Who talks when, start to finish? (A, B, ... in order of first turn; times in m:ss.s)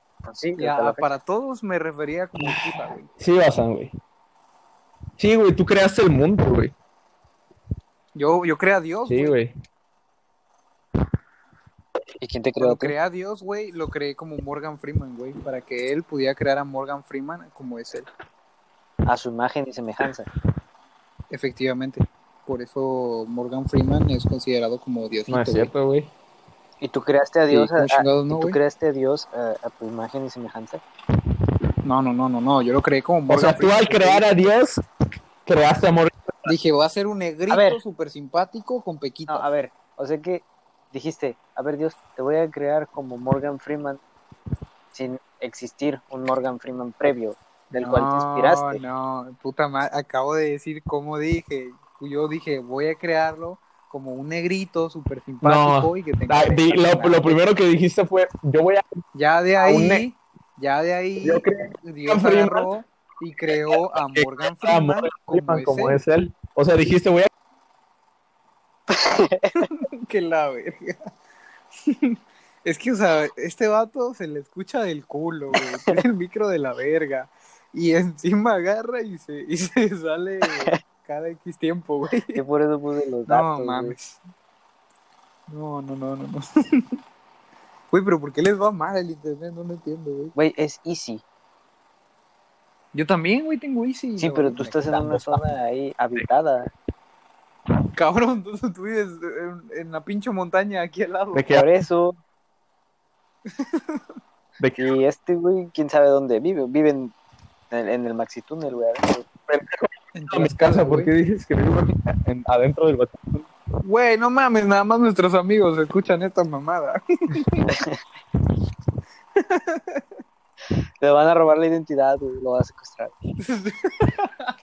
0:00.2-0:01.1 A
0:00.6-0:03.1 B
0:02.4-0:03.9 C
0:05.2-0:06.7 C
0:08.2-0:09.4 B
0:09.1-0:09.5 C
0:12.2-0:12.9 A
0:12.6-0:18.1 B
0:19.0-0:20.3 A
0:21.3-0:25.7 B
0:25.3-0:26.1 C
0:26.8-0:30.8 A
0:27.5-0:28.6 B
0:31.8-0:34.3 B
0:33.3-0:34.8 C
0:35.5-0:36.5 C
0:36.4-0:39.5 B
0:37.5-0:37.8 A
0:39.3-0:44.0 A
0:44.9-0:48.8 A
0:47.8-0:57.4 B
0:55.4-0:58.8 C
0:59.1-1:06.0 B
0:59.6-1:00.0 C
1:01.2-1:02.7 C
1:04.2-1:07.3 C
1:08.9-1:09.7 A
1:09.7-1:11.0 B
1:11.8-1:22.4 B
1:20.4-1:20.8 A
1:22.3-1:24.0 A
1:23.3-1:24.2 B
1:25.5-1:26.9 B
1:27.9-1:30.3 B
1:30.4-1:31.2 A
1:32.9-1:35.0 B
1:34.2-1:36.7 A
1:35.0-1:35.4 C
1:38.0-1:41.5 B
1:41.3-1:41.7 C
1:41.5-1:42.2 A
1:43.5-1:44.0 B
1:44.6-1:45.0 C
1:44.8-1:47.2 A
1:47.7-1:49.2 A
1:49.5-1:53.4 C
1:50.1-1:51.1 B
1:53.8-1:57.7 B
1:57.7-1:58.0 A
1:59.4-2:00.0 B
2:01.0-2:03.2 A
2:03.4-2:04.5 B